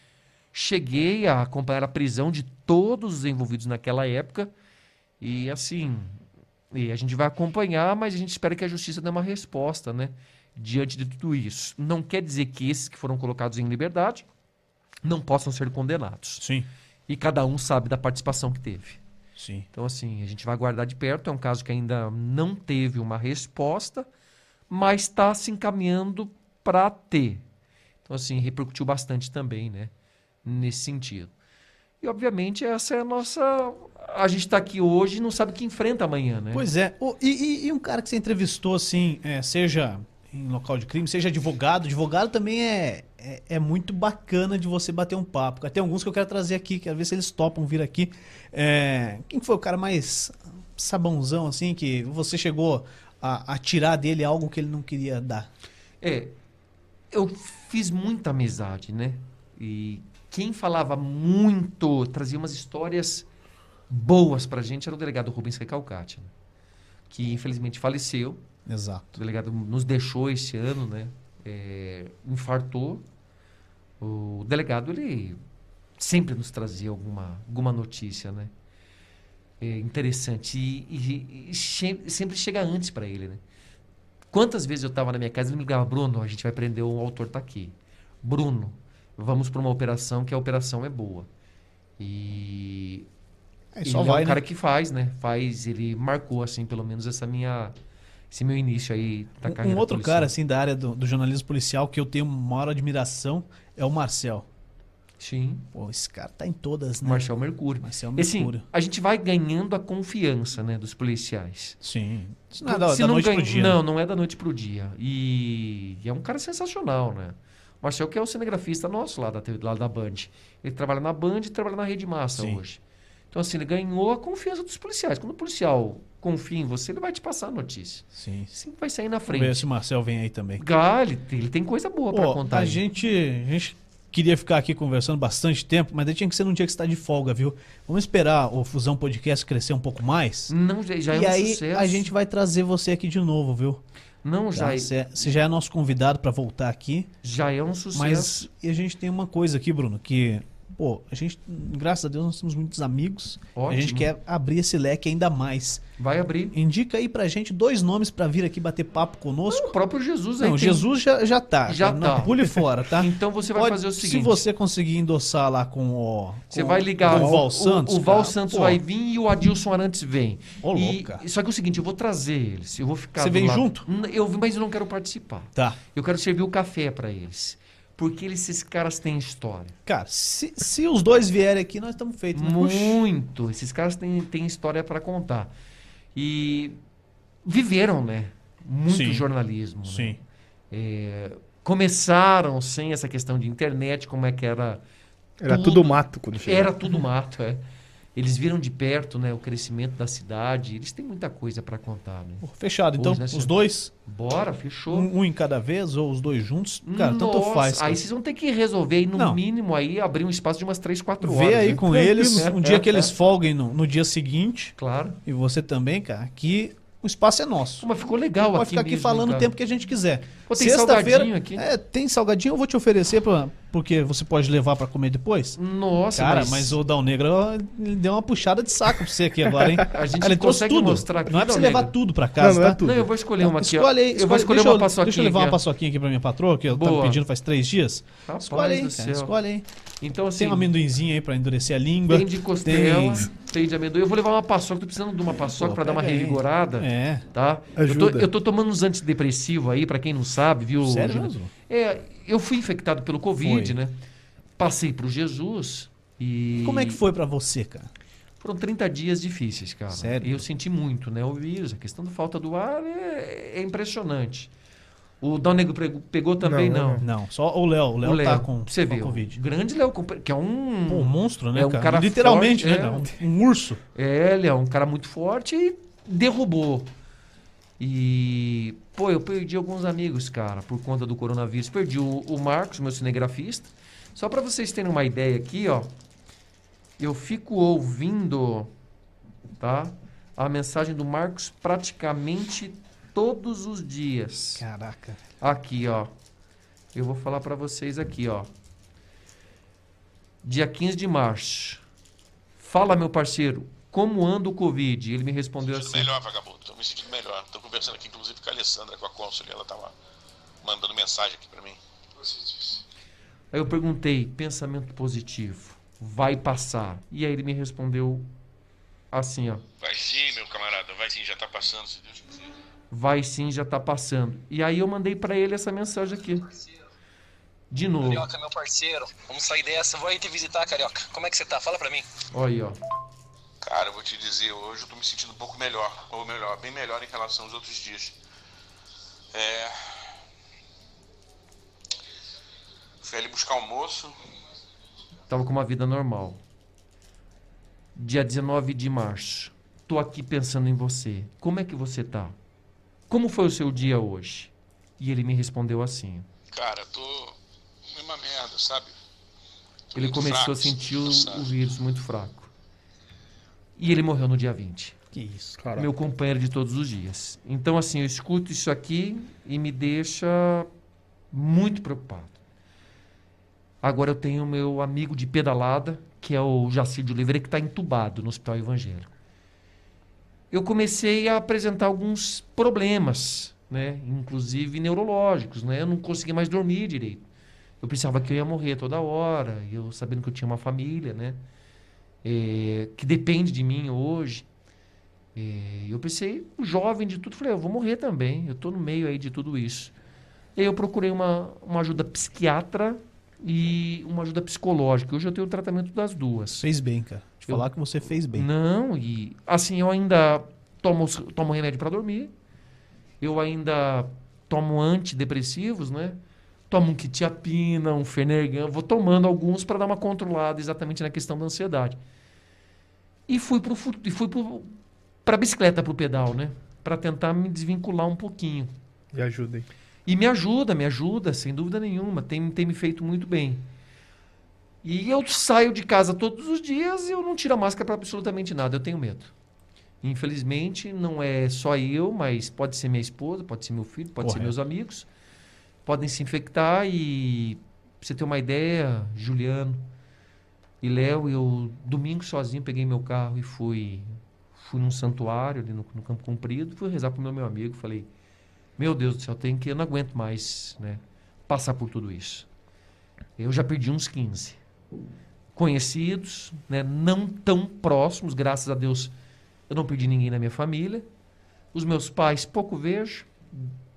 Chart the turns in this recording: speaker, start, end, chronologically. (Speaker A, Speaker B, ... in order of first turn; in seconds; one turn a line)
Speaker A: 0.5-4.5
Speaker A: 5.2-6.2
Speaker A: 6.7-14.2
Speaker A: 15.0-16.4
Speaker B: 16.4-16.7
Speaker A: 17.1-19.0
Speaker B: 19.4-19.7
Speaker A: 19.7-24.1
Speaker A: 24.7-27.4
Speaker A: 28.1-29.9
Speaker A: 30.4-31.3
Speaker A: 32.0-36.6
Speaker B: 36.5-55.5
Speaker A: 56.0-56.3
Speaker A: 57.1-63.3
Speaker A: 63.9-66.3
Speaker A: 67.1-68.4
Speaker B: 68.7-69.1
Speaker A: 69.1-73.0
Speaker A: 74.0-75.4
Speaker A: 76.0-78.5
Speaker A: 79.6-83.4
Speaker A: 84.3-91.3
Speaker A: 92.0-93.1
Speaker B: 93.7-94.4
Speaker A: 93.8-97.7
Speaker A: 98.3-100.3
Speaker B: 99.4-104.5
Speaker A: 105.2-105.7
Speaker B: 105.7-108.6
Speaker A: 107.0-111.8
Speaker B: 111.8-113.8
Speaker A: 112.6-129.6
Speaker B: 122.3-122.6
Speaker B: 128.1-128.5
Speaker B: 129.3-130.6
Speaker A: 130.6-132.8
Speaker B: 132.1-140.5
Speaker A: 140.5-142.1
Speaker B: 141.1-143.8
Speaker A: 144.2-144.9
Speaker B: 144.5-147.1
Speaker A: 147.2-148.5
Speaker B: 147.9-155.8
Speaker A: 153.5-154.1
Speaker A: 156.0-156.6
Speaker B: 156.5-159.8
Speaker A: 159.5-160.8
Speaker B: 160.4-168.8
Speaker A: 161.7-164.4
Speaker A: 166.5-179.8
Speaker C: 167.1-167.4
Speaker B: 170.6-171.2
Speaker B: 173.2-173.8
Speaker B: 175.5-175.8
Speaker B: 179.8-183.0
Speaker A: 182.3-185.5
Speaker A: 186.1-186.8
Speaker A: 187.4-194.8
Speaker B: 188.9-189.2
Speaker B: 189.9-190.2
Speaker C: 195.4-196.7
Speaker A: 195.4-197.6
Speaker A: 198.2-202.4
Speaker B: 202.4-203.9
Speaker A: 203.0-205.1
Speaker B: 204.9-208.0
Speaker A: 206.8-213.1
Speaker B: 209.1-209.4
Speaker B: 211.2-217.9
Speaker A: 214.8-215.2
Speaker A: 217.8-219.5
Speaker B: 218.5-225.6
Speaker A: 220.5-221.7
Speaker A: 225.6-226.8
Speaker B: 226.1-232.8
Speaker A: 229.9-231.9
Speaker C: 232.4-233.1
Speaker A: 232.8-235.6
Speaker B: 233.4-239.6
Speaker A: 236.7-237.2
Speaker A: 238.3-239.3
Speaker A: 240.0-240.7
Speaker B: 240.3-243.3
Speaker A: 242.1-254.0
Speaker B: 245.3-247.2
Speaker C: 247.8-248.3
Speaker B: 250.8-251.5
Speaker B: 253.4-253.8
Speaker A: 254.6-257.0
Speaker B: 256.6-257.9
Speaker A: 258.4-264.5
Speaker B: 259.9-260.4
Speaker A: 265.2-267.0
Speaker C: 266.4-267.1
Speaker B: 267.0-269.4
Speaker A: 268.0-273.1
Speaker B: 270.9-273.8
Speaker A: 273.9-276.9
Speaker A: 277.8-285.9
Speaker A: 287.0-288.7
Speaker A: 289.6-294.6
Speaker B: 294.6-295.2
Speaker A: 295.4-296.1
Speaker A: 296.9-298.5
Speaker A: 300.4-301.8
Speaker A: 302.6-306.1
Speaker D: 305.6-309.9
Speaker D: 310.6-312.8
Speaker A: 313.5-318.3
Speaker A: 319.1-319.6
Speaker D: 319.8-322.4
Speaker A: 322.9-326.6
Speaker A: 327.7-328.3
Speaker E: 328.3-332.1
Speaker A: 332.2-332.8
Speaker D: 333.6-338.1
Speaker D: 339.3-340.1
Speaker D: 343.0-344.1
Speaker A: 345.3-346.4
Speaker A: 347.9-352.3
Speaker A: 353.1-356.3
Speaker D: 356.5-357.4
Speaker D: 357.9-358.9
Speaker D: 359.9-361.5
Speaker A: 359.9-362.5
Speaker A: 363.8-364.9
Speaker B: 365.1-365.6
Speaker C: 365.6-365.9
Speaker A: 365.7-370.7
Speaker A: 371.3-372.4
Speaker A: 373.8-379.1
Speaker A: 380.5-387.2
Speaker A: 387.8-391.4
Speaker A: 392.2-394.4
Speaker A: 395.3-399.9
Speaker A: 400.6-406.6
Speaker B: 406.6-408.5
Speaker A: 407.4-407.7
Speaker A: 408.3-412.3
Speaker A: 413.2-422.0
Speaker A: 423.3-428.7
Speaker C: 429.1-429.7
Speaker A: 430.1-433.7
Speaker A: 434.8-439.3
Speaker A: 440.0-445.1
Speaker B: 444.2-444.5
Speaker A: 445.9-449.9
Speaker A: 450.8-458.1
Speaker A: 458.8-462.5
Speaker A: 463.4-464.6
Speaker A: 465.5-469.1
Speaker A: 469.7-471.1
Speaker A: 471.7-473.7